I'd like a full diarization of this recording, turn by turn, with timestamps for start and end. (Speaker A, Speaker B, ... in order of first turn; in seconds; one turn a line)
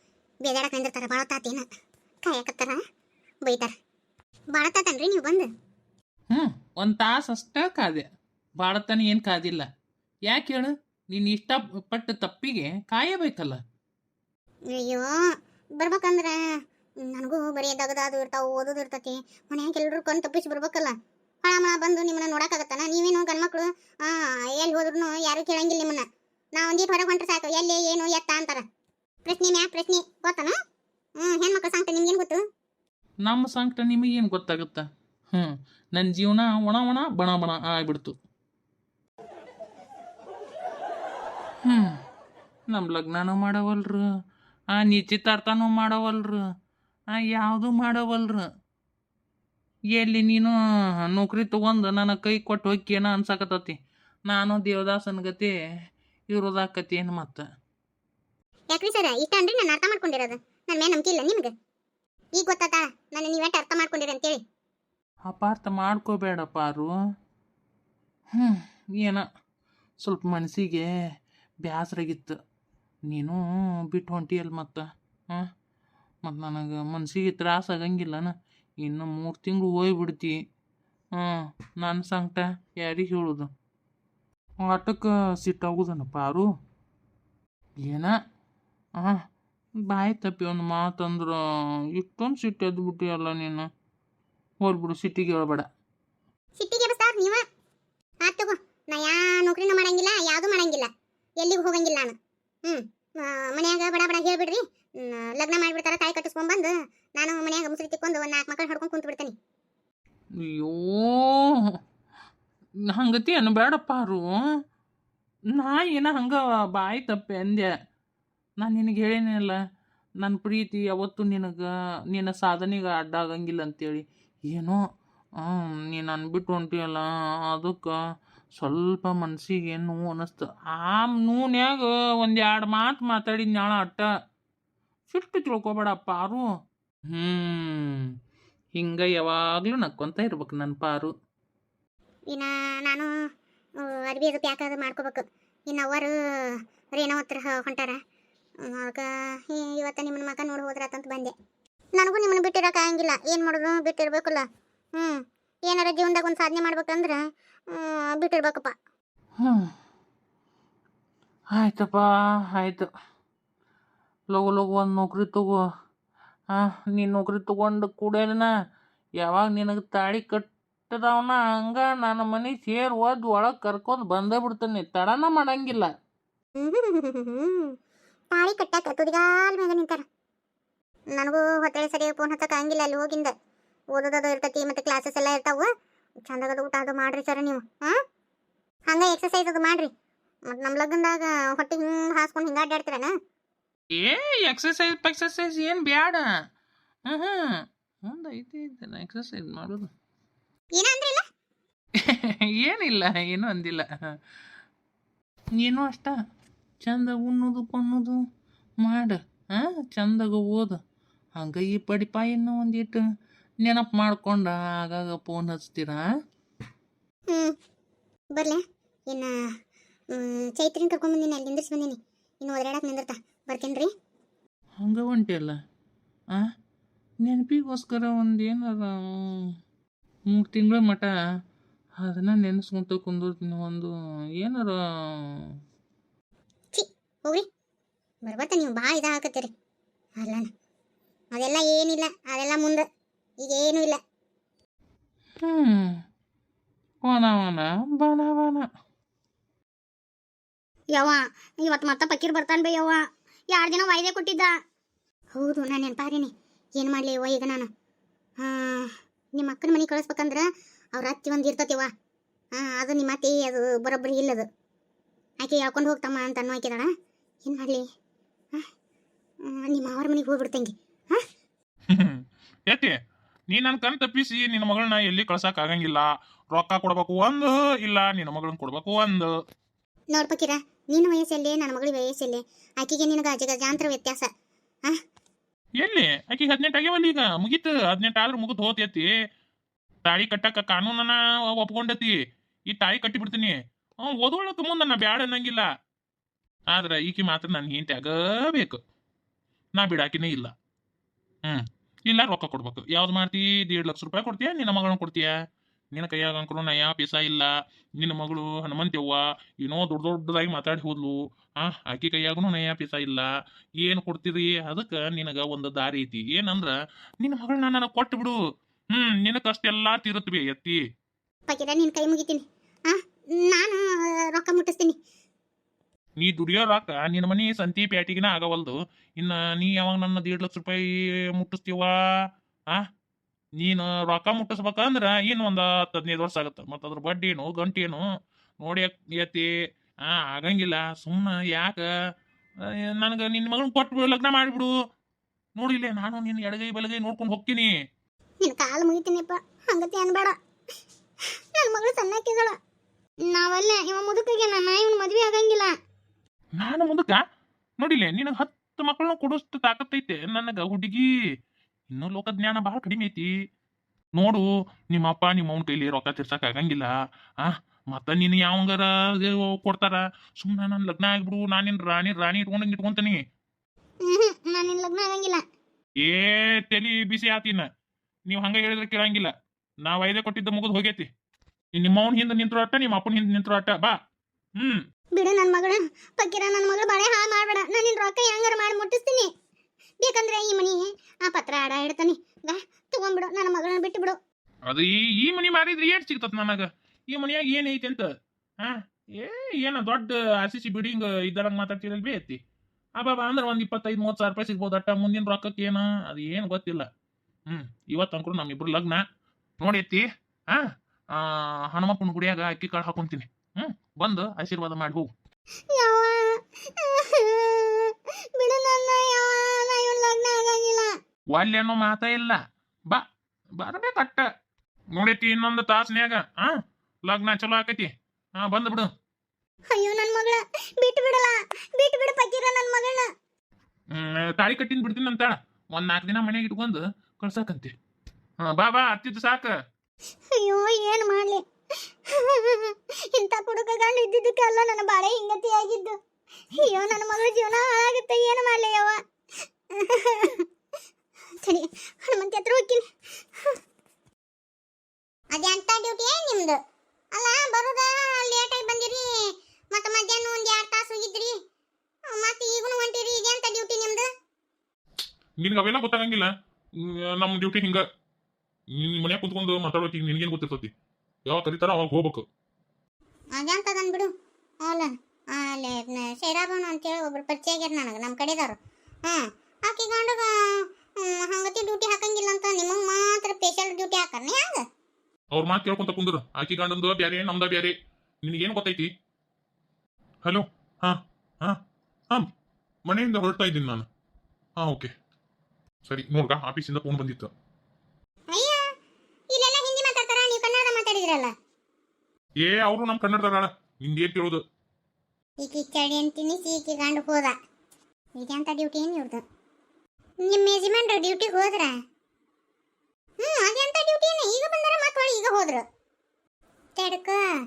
Speaker A: 0.4-1.6
Speaker A: 2.2-2.8
Speaker A: 3.5-3.7
Speaker A: 4.5-5.5
Speaker B: 6.3-8.1
Speaker B: 8.6-9.7
Speaker B: 10.3-13.6
Speaker A: 14.7-15.1
Speaker A: 15.8-16.4
Speaker A: 17.0-28.6
Speaker A: 29.2-30.6
Speaker A: 31.2-32.5
Speaker B: 33.2-38.2
Speaker B: 41.6-42.0
Speaker B: 42.7-44.0
Speaker B: 44.7-46.4
Speaker B: 47.1-48.5
Speaker B: 49.9-50.5
Speaker B: 51.1-53.8
Speaker B: 54.3-55.5
Speaker B: 56.3-57.5
Speaker A: 58.7-61.5
Speaker A: 62.4-64.4
Speaker B: 65.3-66.9
Speaker B: 68.3-69.2
Speaker B: 70.0-70.9
Speaker B: 71.7-72.4
Speaker B: 73.1-75.5
Speaker B: 76.2-80.4
Speaker B: 81.2-83.5
Speaker B: 84.6-86.5
Speaker B: 87.8-88.1
Speaker B: 89.9-91.4
Speaker B: 92.0-93.7
Speaker B: 94.6-95.7
Speaker A: 96.6-97.4
Speaker A: 98.2-100.9
Speaker A: 101.4-102.2
Speaker A: 102.7-109.3
Speaker B: 110.4-111.7
Speaker B: 112.9-114.4
Speaker B: 115.5-117.7
Speaker B: 118.6-119.6
Speaker B: 120.2-124.8
Speaker B: 125.4-128.0
Speaker B: 128.6-134.1
Speaker B: 135.1-136.5
Speaker B: 137.1-138.0
Speaker B: 138.8-141.1
Speaker A: 142.3-143.1
Speaker A: 143.8-146.1
Speaker A: 147.0-148.0
Speaker A: 148.6-151.3
Speaker A: 152.0-154.5
Speaker A: 155.0-158.8
Speaker B: 159.4-159.7
Speaker B: 161.5-162.9
Speaker B: 164.3-165.6
Speaker B: 166.5-168.5
Speaker B: 169.2-175.9
Speaker A: 176.6-177.8
Speaker A: 178.3-180.0
Speaker A: 181.2-183.3
Speaker A: 183.9-185.7
Speaker A: 186.2-188.0
Speaker A: 188.9-189.9
Speaker A: 190.5-193.1
Speaker B: 193.9-196.3
Speaker B: 197.1-199.9
Speaker A: 200.7-201.2
Speaker B: 202.0-203.9
Speaker B: 205.6-206.1
Speaker B: 206.8-208.2
Speaker B: 208.8-210.8
Speaker B: 211.4-213.0
Speaker B: 213.6-216.0
Speaker A: 217.3-217.6
Speaker A: 218.4-219.3
Speaker A: 220.1-223.9
Speaker B: 224.8-225.6
Speaker B: 227.2-229.5
Speaker B: 230.3-231.1
Speaker B: 232.0-235.5
Speaker A: 236.7-237.5
Speaker A: 238.2-239.5
Speaker A: 240.2-240.5
Speaker A: 241.3-242.8
Speaker A: 243.4-244.0
Speaker B: 245.4-246.0
Speaker B: 247.1-248.7
Speaker A: 250.9-254.6
Speaker A: 255.3-257.7
Speaker A: 258.4-261.9
Speaker A: 262.5-264.5
Speaker A: 265.4-266.9
Speaker A: 267.4-267.8
Speaker A: 269.4-271.2
Speaker C: 271.9-272.9
Speaker C: 273.5-279.3
Speaker A: 280.1-284.3
Speaker C: 285.8-289.1
Speaker C: 290.1-292.2
Speaker C: 292.7-295.7
Speaker C: 296.7-298.8
Speaker C: 299.8-300.5
Speaker C: 301.5-305.3
Speaker C: 305.9-313.3
Speaker C: 313.8-318.4
Speaker C: 318.9-320.8
Speaker A: 321.5-325.0
Speaker C: 326.2-331.9
Speaker C: 333.6-338.1
Speaker C: 338.6-339.5
Speaker C: 340.1-341.9
Speaker C: 342.6-344.7
Speaker C: 345.6-347.7
Speaker A: 348.4-350.4
Speaker A: 351.6-352.6
Speaker A: 353.2-355.8
Speaker C: 356.6-357.2
Speaker C: 357.8-361.1
Speaker C: 361.9-363.3
Speaker C: 364.2-373.2
Speaker A: 374.0-375.4
Speaker C: 376.0-377.7
Speaker C: 378.3-379.3
Speaker C: 379.9-381.1
Speaker C: 381.8-384.0
Speaker C: 384.6-384.9
Speaker A: 385.2-389.3
Speaker A: 390.0-394.2
Speaker C: 394.7-398.1
Speaker C: 398.6-402.4
Speaker C: 403.0-406.9
Speaker C: 407.5-409.0
Speaker C: 409.6-415.1
Speaker A: 415.7-421.0
Speaker C: 421.3-422.4
Speaker C: 423.6-424.3
Speaker C: 424.9-426.5
Speaker C: 427.1-428.9
Speaker A: 429.7-433.1
Speaker C: 433.9-437.7
Speaker C: 438.4-439.5
Speaker A: 440.3-446.0
Speaker A: 446.5-449.0
Speaker A: 449.8-450.4
Speaker A: 451.4-452.9
Speaker A: 455.3-456.6
Speaker A: 457.1-461.4
Speaker A: 462.1-464.1
Speaker C: 465.4-467.8
Speaker C: 468.7-470.7
Speaker C: 471.3-472.3
Speaker A: 473.4-474.1
Speaker A: 474.6-484.6
Speaker C: 485.3-488.9
Speaker C: 490.2-491.6
Speaker C: 492.9-493.9
Speaker C: 494.6-494.9
Speaker C: 495.9-497.3
Speaker A: 498.3-498.6
Speaker A: 499.3-501.3
Speaker C: 502.4-504.4
Speaker A: 505.4-507.4
Speaker A: 508.2-509.2
Speaker A: 510.2-511.8
Speaker A: 513.2-515.6
Speaker A: 516.8-517.2